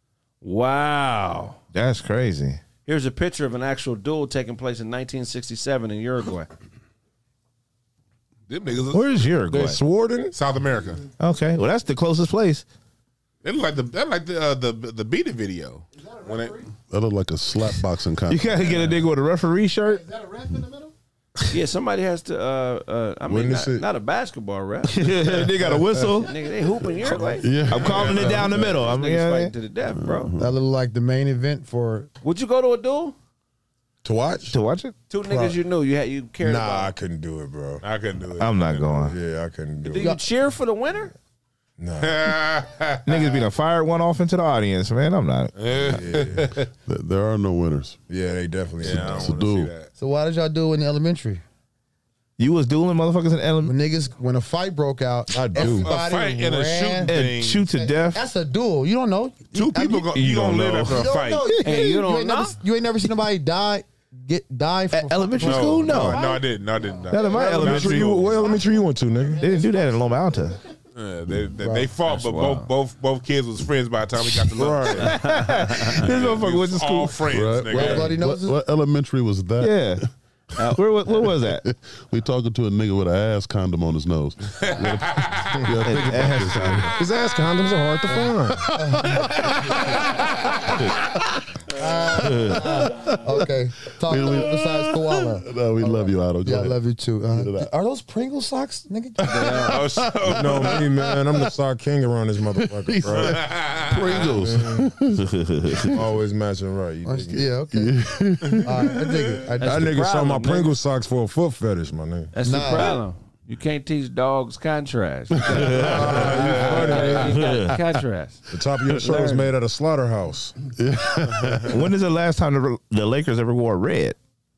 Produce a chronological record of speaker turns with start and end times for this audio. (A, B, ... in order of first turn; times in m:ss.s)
0:00.4-0:01.6 A
0:01.7-0:02.6 B
0:02.8-0:06.5 A
0:08.5-0:09.3 C
0:08.9-0:09.8 B
0:09.5-0:10.3 D
0:10.3-0:11.0 C
0:11.2-0:12.6 B
0:13.4-0:16.6 C
0:16.9-0:18.8 E
0:18.3-0:20.1 B
0:21.5-0:24.9 A
0:23.3-0:23.8 D
0:24.8-0:26.3 B
0:25.3-0:26.2 E
0:26.2-0:27.5 A
0:27.2-0:28.6 C
0:27.4-0:28.9 E
0:27.7-0:29.5 B
0:28.6-0:30.3 A
0:29.9-0:30.6 E
0:30.4-0:32.1 F
0:32.2-0:33.1 A
0:34.0-0:34.5 D
0:34.5-0:34.9 B
0:35.1-0:36.9 A
0:35.2-0:35.6 D
0:36.4-0:37.8 D
0:37.8-0:39.1 C
0:38.4-0:39.2 B
0:39.1-0:40.1 D
0:39.8-0:41.1 A
0:41.8-0:42.4 D
0:42.0-0:43.5 C
0:43.0-0:45.5 B
0:45.6-0:46.7 C
0:45.9-0:46.4 D
0:46.8-0:48.0 E
0:48.1-0:49.4 D
0:48.8-0:49.9 C
0:48.8-0:49.7 E
0:50.0-0:51.4 F
0:52.4-0:53.8 B
0:53.6-1:06.4 F
0:55.3-0:55.9 D
0:55.6-0:57.7 C
0:57.1-0:58.2 B
0:59.5-1:01.6 C
1:00.2-1:01.1 B
1:01.6-1:02.6 A
1:04.9-1:06.2 B
1:05.4-1:08.6 C
1:07.1-1:08.2 B
1:07.3-1:09.4 D
1:09.4-1:10.6 B
1:10.9-1:15.2 C
1:11.6-1:11.9 F
1:12.0-1:12.7 A
1:14.5-1:15.1 D
1:15.0-1:16.1 A
1:15.1-1:17.2 B
1:15.8-1:18.2 C
1:17.3-1:20.0 E
1:17.7-1:18.6 F
1:19.6-1:20.0 B
1:20.7-1:21.6 B
1:21.4-1:26.9 E
1:24.6-1:25.6 C
1:25.8-1:26.9 B
1:27.0-1:28.7 D
1:28.7-1:29.8 F
1:28.8-1:29.3 E
1:31.7-1:39.7 F
1:32.2-1:32.7 B
1:32.2-1:33.5 E
1:34.0-1:37.7 E
1:39.2-1:41.4 E
1:39.2-1:39.7 A
1:39.6-1:40.8 C
1:40.3-1:43.4 D
1:42.6-1:45.9 E
1:43.1-1:44.4 C
1:44.4-1:44.9 D
1:45.2-1:46.0 B
1:45.9-1:47.5 D
1:47.0-1:48.1 F
1:47.3-1:49.1 E
1:48.6-1:49.9 F
1:49.6-1:50.8 A
1:49.6-1:52.3 D
1:52.3-1:58.4 A
1:52.4-1:53.0 F
1:55.5-1:56.5 E
1:55.5-1:56.1 B
1:55.9-1:56.8 F
1:55.9-1:57.4 D
1:56.5-1:57.1 C
1:57.2-1:57.8 B
1:58.5-2:00.5 D
1:59.0-1:59.5 A
2:00.8-2:01.8 E
2:01.7-2:04.2 B